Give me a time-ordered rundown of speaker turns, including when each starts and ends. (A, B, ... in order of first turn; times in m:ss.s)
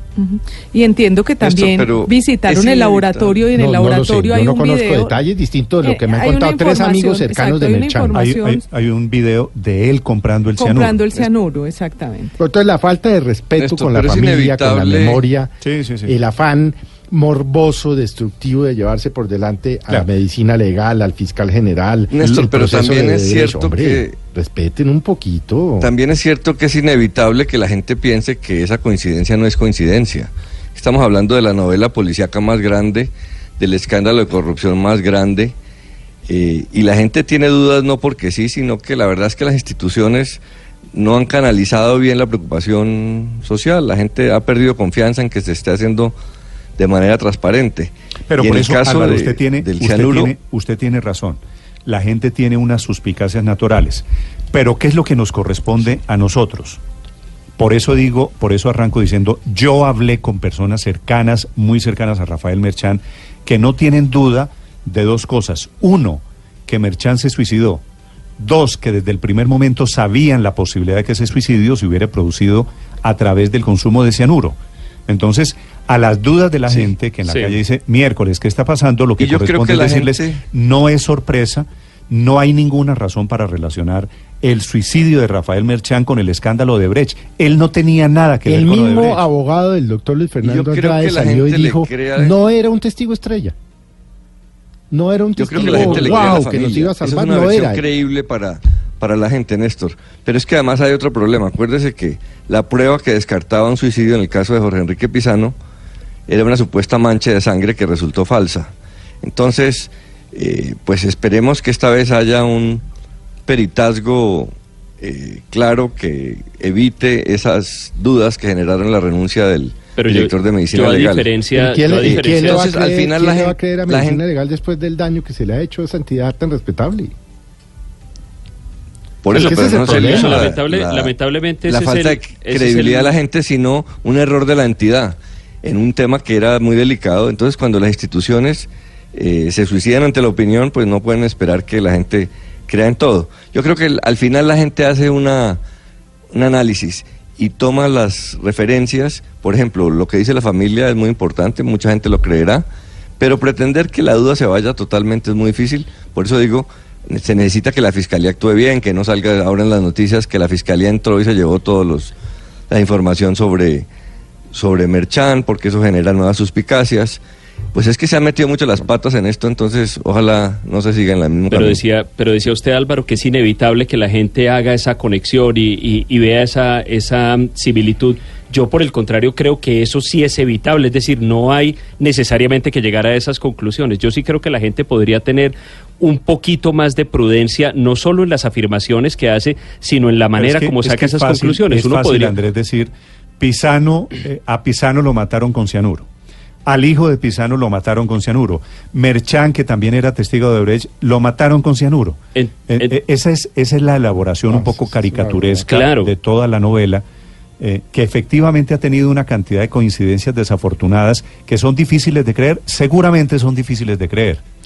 0:00.2-0:05.2 A
0:01.4-0:03.4 B
0:03.5-0:08.2 C
0:05.8-0:08.6 A
0:08.1-0:11.0 D
0:10.6-0:12.4 A
0:12.4-0:15.5 C
0:13.6-0:15.2 B
0:15.6-0:16.1 D
0:16.0-0:25.9 C
0:22.1-0:24.2 B
0:25.8-0:35.6 B
0:36.3-0:40.4 B
0:40.9-0:46.2 B
0:46.8-0:50.4 B
0:48.3-0:56.8 D
0:57.6-1:07.8 D
1:08.4-1:14.6 D
1:15.1-1:29.2 D
1:17.2-1:17.6 E
1:19.2-1:20.4 B
1:28.4-1:33.6 C
1:30.4-1:32.4 B
1:34.9-1:37.8 C
1:35.4-1:45.6 B
1:46.3-1:52.8 B
1:53.5-2:01.4 B
1:59.9-2:02.8 E
2:01.5-2:07.1 C
2:02.0-2:04.2 B
2:09.2-2:25.6 B
2:09.3-2:10.4 C
2:09.4-2:13.2 E
2:26.3-2:32.7 B
2:33.2-2:42.1 B
2:42.7-2:43.9 B
2:44.5-2:47.2 B
2:47.7-2:51.8 B
2:51.5-3:12.4 E
3:10.4-3:16.1 D
3:16.7-3:27.0 D
3:22.4-3:23.0 E
3:24.5-3:25.7 C
3:25.7-3:26.1 E
3:27.6-3:34.4 D